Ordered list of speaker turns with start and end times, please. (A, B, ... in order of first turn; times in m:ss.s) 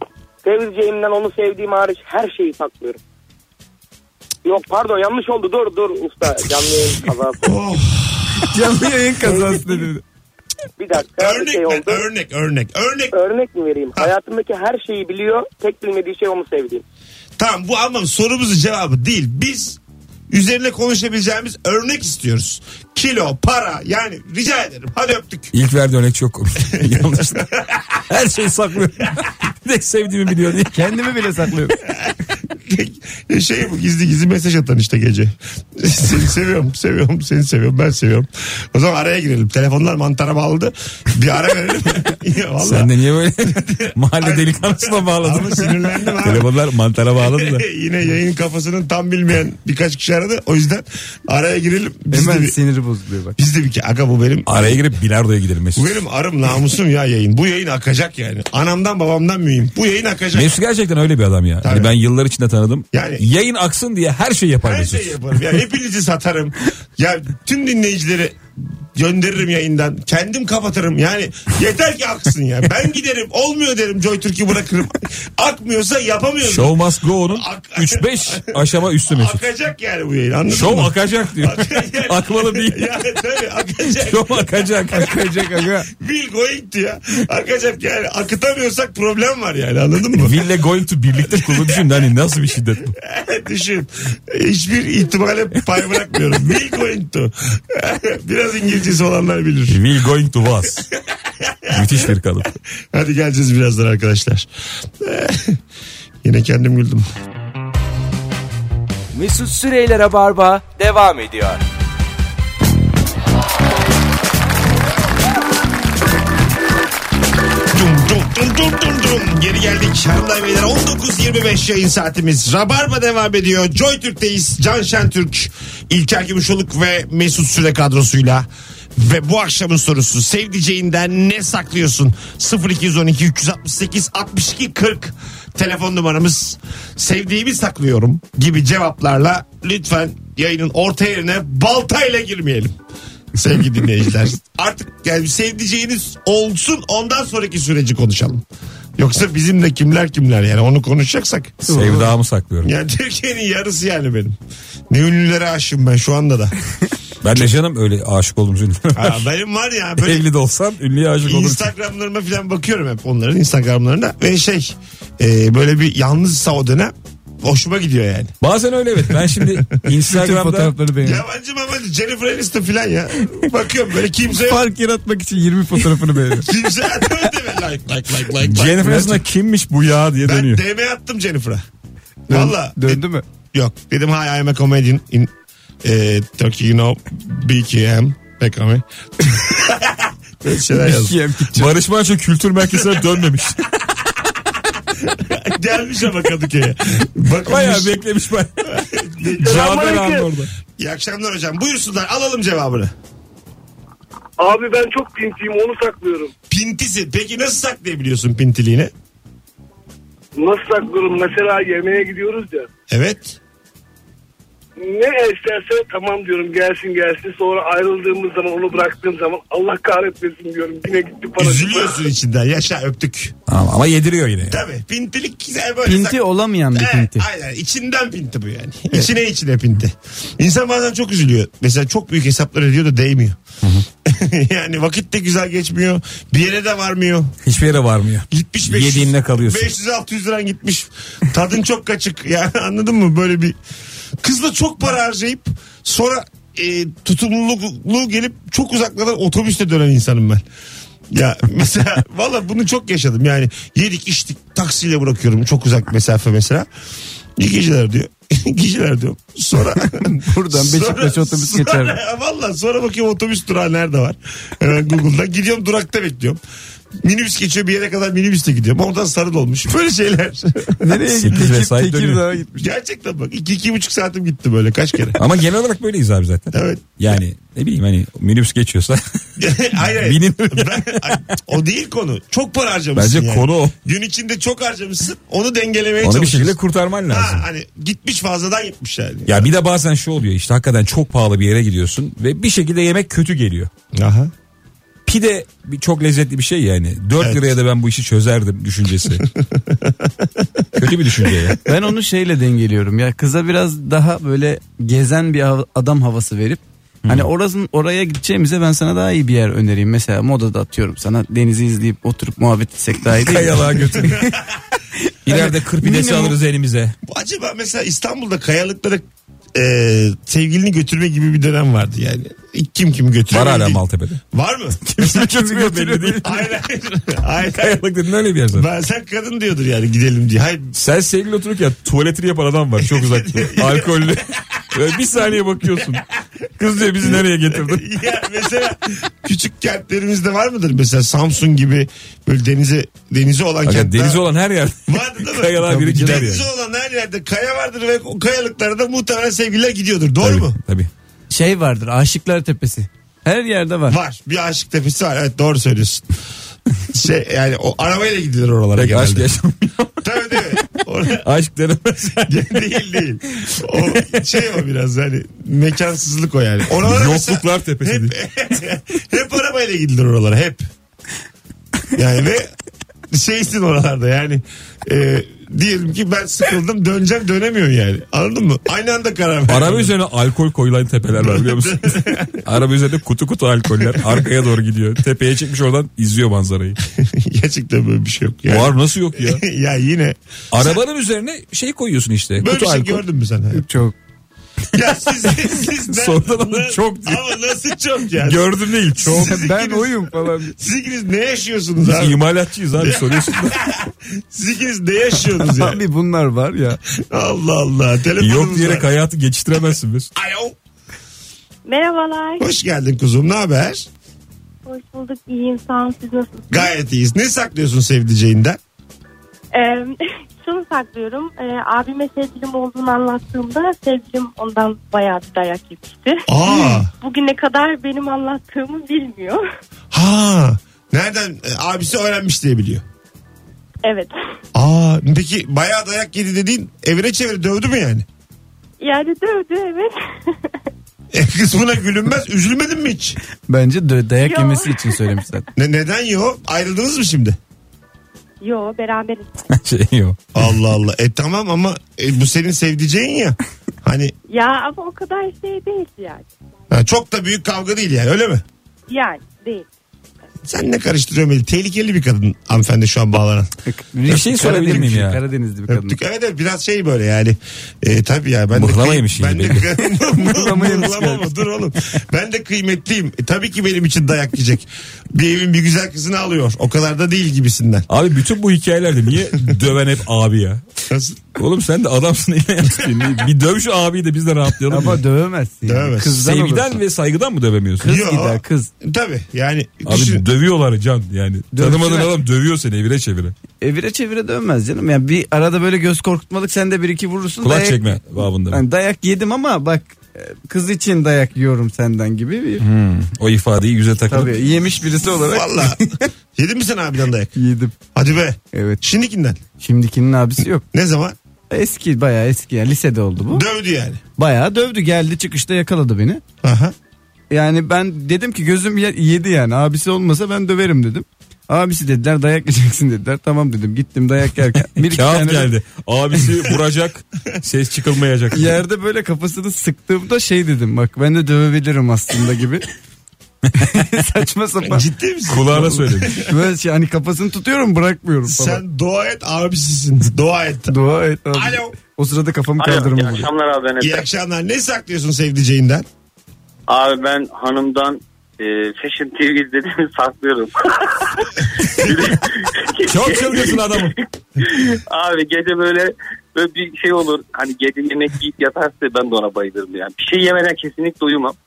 0:00.4-0:03.0 A
0:04.4-0:07.5 A
0:07.4-0:08.6 B
0:08.4-0:10.0 C
0:10.8-0:12.0 A
0:11.2-0:13.1 B
0:13.1-0:16.8 A
0:17.4-0:19.8 B
0:20.3-0:25.5 B
0:25.5-0:27.4 D
0:26.7-0:27.8 B
0:28.1-0:30.8 D
0:30.7-0:31.8 C
0:31.8-0:46.5 B
0:42.6-0:47.6 D
0:47.2-0:52.6 B
0:52.1-0:53.4 C
0:53.4-0:54.8 B
0:54.4-0:55.9 D
0:55.7-1:00.6 B
1:00.3-1:05.2 D
1:01.6-1:01.9 B
1:02.9-1:03.2 B
1:04.6-1:08.4 B
1:08.9-1:16.8 B
1:16.4-1:19.4 D
1:17.3-1:24.7 B
1:20.5-1:22.8 D
1:24.0-1:25.2 D
1:24.9-1:25.9 C
1:25.9-1:30.4 B
1:30.2-1:32.9 D
1:31.2-1:31.9 B
1:33.0-1:39.8 B
1:39.7-1:40.8 D
1:41.4-1:42.1 B
1:41.7-1:42.6 D
1:42.9-1:44.5 B
1:45.0-1:45.6 B
1:46.2-1:47.1 B
1:49.1-1:51.6 E
1:57.7-2:22.8 B
2:23.3-2:28.4 B
2:29.0-2:31.6 B
2:31.7-2:32.1 C
2:31.7-2:32.7 D
2:32.6-2:34.4 B
2:34.9-2:36.6 B
2:37.2-2:39.2 D
2:38.9-2:40.3 B
2:40.0-2:41.7 D
2:41.2-2:48.4 B
2:48.4-2:50.7 D
2:49.0-2:49.8 B
2:50.0-2:51.2 C
2:51.0-2:54.6 B
2:54.3-2:56.5 C
2:56.4-2:59.1 B
2:58.4-3:00.6 D
2:58.9-2:59.1 C
3:00.2-3:01.6 B
3:02.3-3:03.0 B
3:02.3-3:03.2 C
3:03.5-3:05.3 B
3:05.8-3:11.2 B
3:10.7-3:11.8 C
3:11.5-3:13.6 D
3:12.6-3:13.1 B
3:15.0-3:18.0 B
3:17.4-3:18.7 D
3:18.7-3:19.9 B
3:19.4-3:20.5 D
3:19.4-3:20.3 F
3:20.8-3:22.9 B
3:24.4-3:26.3 F
3:26.5-3:28.9 B
3:30.4-3:32.7 F
3:32.9-3:33.4 B
3:34.8-3:42.0 F
3:41.4-3:43.4 B
3:43.5-3:44.6 D
3:44.4-3:46.2 B
3:45.8-3:47.2 C
3:46.7-3:53.4 B
3:54.0-3:57.4 B
3:57.4-3:59.7 D
3:58.3-4:03.6 B
4:04.2-4:10.4 B
4:11.1-4:16.7 B
4:17.4-4:26.4 B
4:20.0-4:22.0 C
4:27.0-4:30.8 B
4:30.8-4:32.7 C
4:31.0-4:32.2 D
4:32.6-4:35.2 B
4:35.2-4:39.0 D
4:36.5-4:36.9 B
4:39.4-4:46.6 B
4:39.8-4:41.2 D
4:43.0-4:43.7 D
4:46.0-4:47.4 D
4:47.1-4:49.5 B
4:49.3-4:53.7 D
4:53.9-4:54.3 B
4:55.0-4:59.2 D
4:57.2-4:57.5 B
4:59.2-4:59.9 B
5:00.8-5:01.6 D
5:01.6-5:14.3 C
5:13.1-5:14.2 D
5:14.0-5:14.6 B
5:15.2-5:16.9 D
5:15.3-5:16.4 C
5:17.0-5:24.8 B
5:23.3-5:24.2 D
5:24.8-5:26.3 D
5:25.0-5:26.4 C
5:26.2-5:27.8 B
5:27.5-5:28.6 D
5:28.5-5:30.7 B
5:30.7-5:36.0 D
5:32.8-5:34.2 B
5:36.6-5:37.8 D
5:36.9-5:44.2 B
5:43.6-5:46.4 D
5:44.9-5:50.6 B
5:45.6-5:46.3 C
5:50.2-5:50.9 D
5:51.3-5:54.0 C
5:53.9-5:56.1 B
5:56.9-5:59.3 B
5:58.8-6:00.6 D
6:00.0-6:01.2 B
6:01.2-6:02.4 D
6:02.2-6:10.6 B
6:03.5-6:04.2 D
6:06.8-6:08.1 D
6:11.9-6:12.5 B
6:13.1-6:19.9 B
6:19.5-6:26.8 D
6:21.2-6:22.4 B
6:23.8-6:24.2 B
6:26.9-6:30.8 B
6:28.5-6:29.4 D
6:30.5-6:33.0 D
6:32.4-6:33.6 B
6:33.5-6:34.0 C
6:34.7-6:42.2 B
6:35.8-6:37.2 D
6:38.2-6:39.4 D
6:39.0-6:40.5 C
6:41.8-6:43.6 D
6:42.7-6:45.8 B
6:45.3-6:46.8 C
6:46.9-6:48.9 B
6:48.2-6:50.1 D
6:50.1-6:50.6 B
6:51.6-6:52.4 G
6:52.4-6:53.9 B
6:54.6-6:56.7 G
6:56.5-6:58.6 B
6:59.5-7:09.4 G
7:06.3-7:06.9 B
7:09.9-7:12.8 B
7:13.8-7:14.1 G
7:14.5-7:18.0 B
7:18.8-7:20.4 G
7:21.1-7:23.2 B
7:23.5-7:25.4 C
7:24.2-7:25.2 G
7:25.6-7:27.4 B
7:28.4-7:29.5 G
7:29.5-7:30.4 D
7:30.3-7:34.1 B
7:34.3-7:36.3 G
7:36.7-7:38.4 B
7:38.9-7:39.7 G
7:40.4-7:43.5 B
7:43.6-7:46.0 C
7:44.1-7:45.2 D
7:45.7-7:57.9 B
7:48.5-7:49.7 D
7:49.8-7:51.4 C
7:57.9-8:00.6 D
8:00.9-8:01.3 B
8:01.4-8:05.0 D
8:04.7-8:06.8 C
8:05.6-8:06.2 B
8:06.1-8:08.0 D
8:07.8-8:08.7 C
8:07.8-8:10.2 B
8:09.8-8:13.3 D
8:11.5-8:12.1 C
8:13.6-8:22.6 C
8:17.4-8:18.6 D
8:22.6-8:24.3 D
8:24.1-8:26.0 C
8:25.2-8:27.3 B
8:27.3-8:27.7 C
8:27.9-8:29.4 B
8:28.5-8:28.8 C
8:29.6-8:30.6 C
8:30.7-8:31.2 B
8:31.5-8:33.4 C
8:33.3-8:34.0 B
8:34.2-8:36.2 C
8:36.4-8:36.7 B
8:37.3-8:45.5 C
8:44.8-8:48.6 D
8:48.3-8:52.7 C
8:53.6-8:54.8 C
8:54.6-8:56.2 B
8:55.3-8:56.2 D
8:56.2-8:58.6 C
8:58.2-9:00.7 B
9:00.7-9:03.3 C
9:01.3-9:01.8 B
9:02.6-9:04.0 H
9:03.8-9:05.8 B
9:06.7-9:21.4 H
9:11.8-9:12.1 B
9:12.9-9:13.9 D